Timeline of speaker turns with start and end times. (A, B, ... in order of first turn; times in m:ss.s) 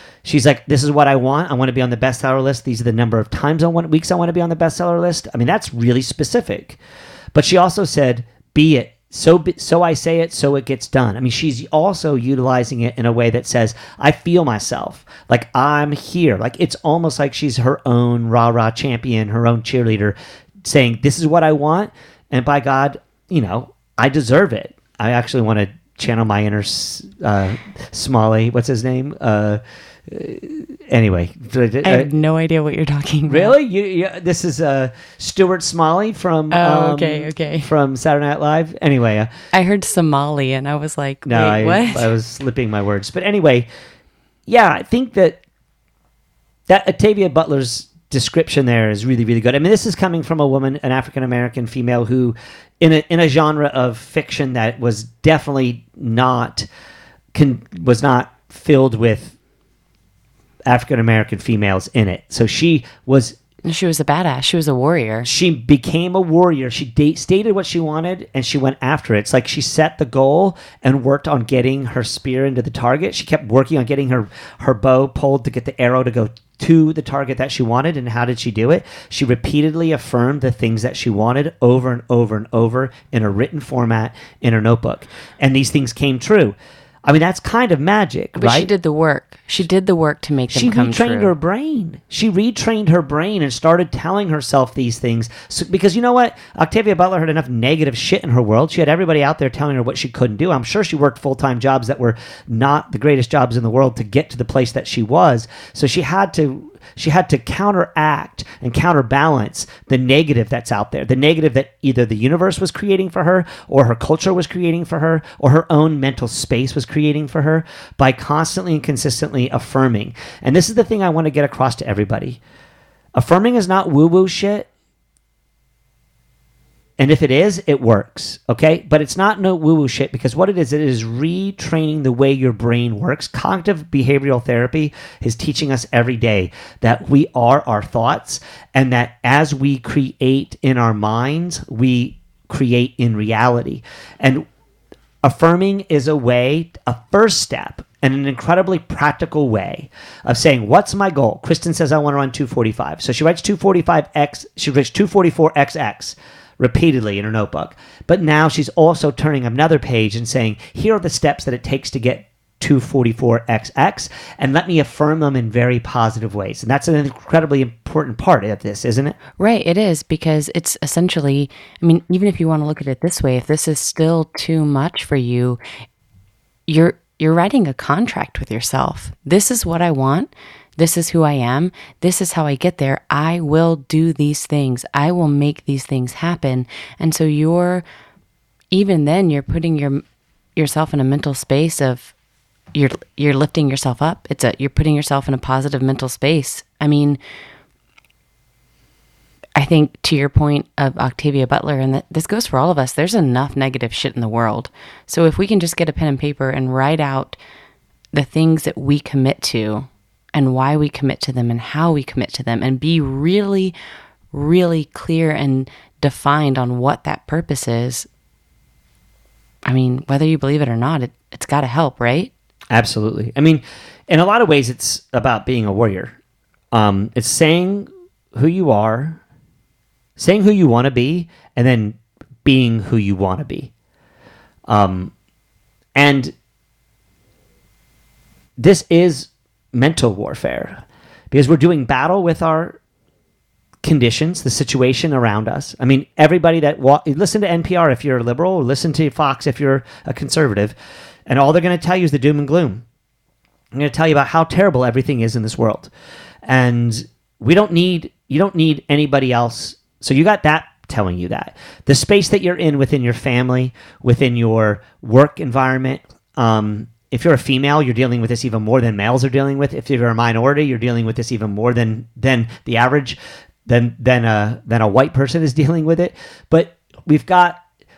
0:00.2-0:06.8 A
0:07.4-0:32.1 A
0:31.8-0:33.6 B
0:33.3-0:39.3 A
0:36.5-0:37.7 B
0:39.5-0:42.1 B
0:41.3-0:43.7 A
0:44.5-0:45.4 A
0:46.7-0:56.7 A
0:57.3-0:59.4 A
1:00.7-1:03.4 A
1:03.6-1:05.3 B
1:05.2-1:28.7 A
1:28.4-1:31.3 B
1:30.5-2:02.4 A
2:03.2-2:04.7 A
2:07.0-2:24.5 A
2:25.2-2:49.2 A
2:49.4-2:55.6 B
2:56.7-3:07.8 B
3:08.7-3:10.0 B
3:10.6-3:12.1 B
3:12.7-3:17.2 B
3:19.6-3:27.4 B
3:28.1-3:33.7 B
3:34.3-3:38.1 B
3:39.7-3:42.3 B
3:42.7-3:46.2 A
3:46.7-3:49.2 A
3:50.2-3:53.7 A
3:54.7-3:55.1 A
3:56.0-3:56.3 A
3:58.6-4:02.8 A
4:03.8-4:10.7 A
4:11.3-4:12.8 A
4:13.7-4:15.9 A
4:16.4-4:37.6 A